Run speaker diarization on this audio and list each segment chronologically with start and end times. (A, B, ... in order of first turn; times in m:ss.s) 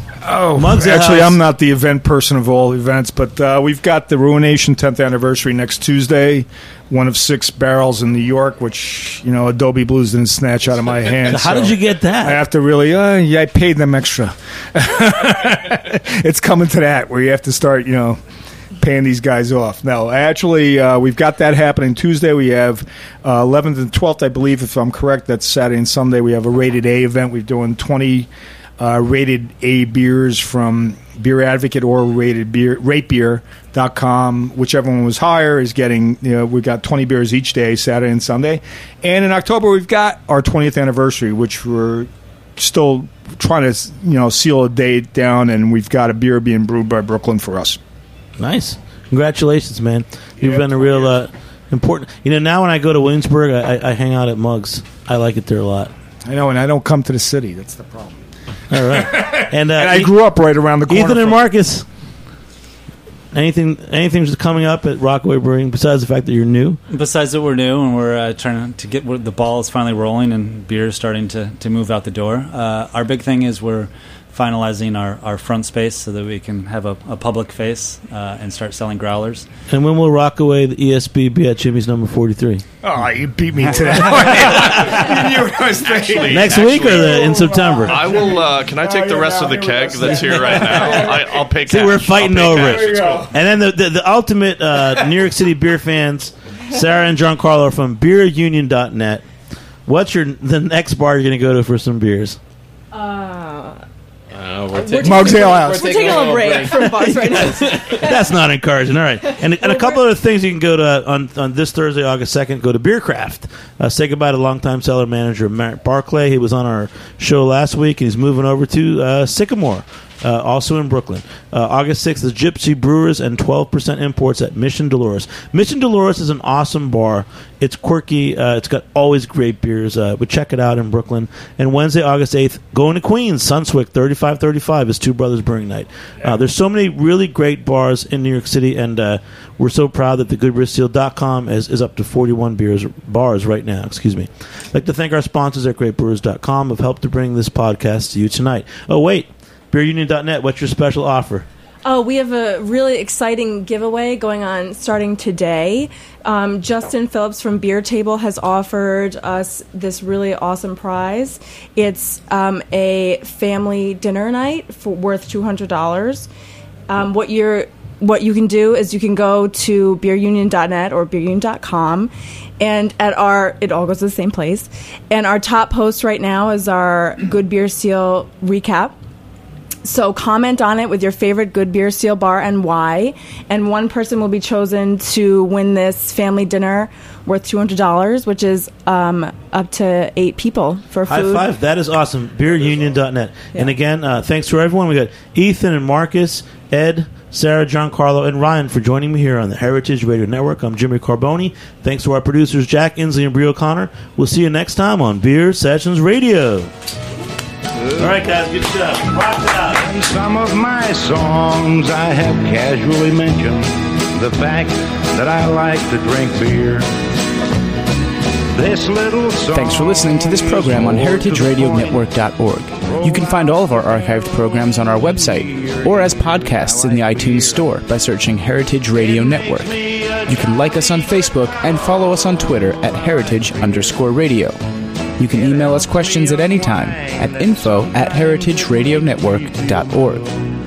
0:00.2-0:18.2 A
0:00.6-0:01.4 B
0:11.2-0:12.4 B
0:18.8-0:47.8 A
0:48.4-0:55.9 B
0:50.4-0:51.1 A
0:56.3-0:58.2 A
0:58.7-1:00.2 B
0:58.8-1:01.4 A
1:00.9-1:01.9 B
1:03.3-1:06.8 B
1:06.9-1:19.5 C
1:19.7-1:22.6 B
1:22.8-1:31.5 A
1:24.2-1:33.3 D
1:26.3-1:28.1 B
1:31.6-1:39.2 B
1:32.5-1:33.3 A
1:39.9-1:42.4 B
1:42.9-1:43.8 E
1:44.3-1:48.1 F
1:44.7-1:48.2 E
1:45.0-1:46.3 A
1:47.1-2:31.5 B
1:49.4-1:50.0 E
2:31.8-2:46.3 E
2:46.9-2:59.0 E
2:59.8-3:11.5 E
3:11.1-3:26.7 B
3:28.0-3:29.8 B
3:29.7-3:36.9 G
3:38.5-3:42.0 G
3:39.5-3:54.6 H
3:42.8-3:47.8 G
3:49.0-3:52.1 G
3:52.9-3:54.0 G
3:55.2-4:00.3 H
3:55.2-4:00.2 G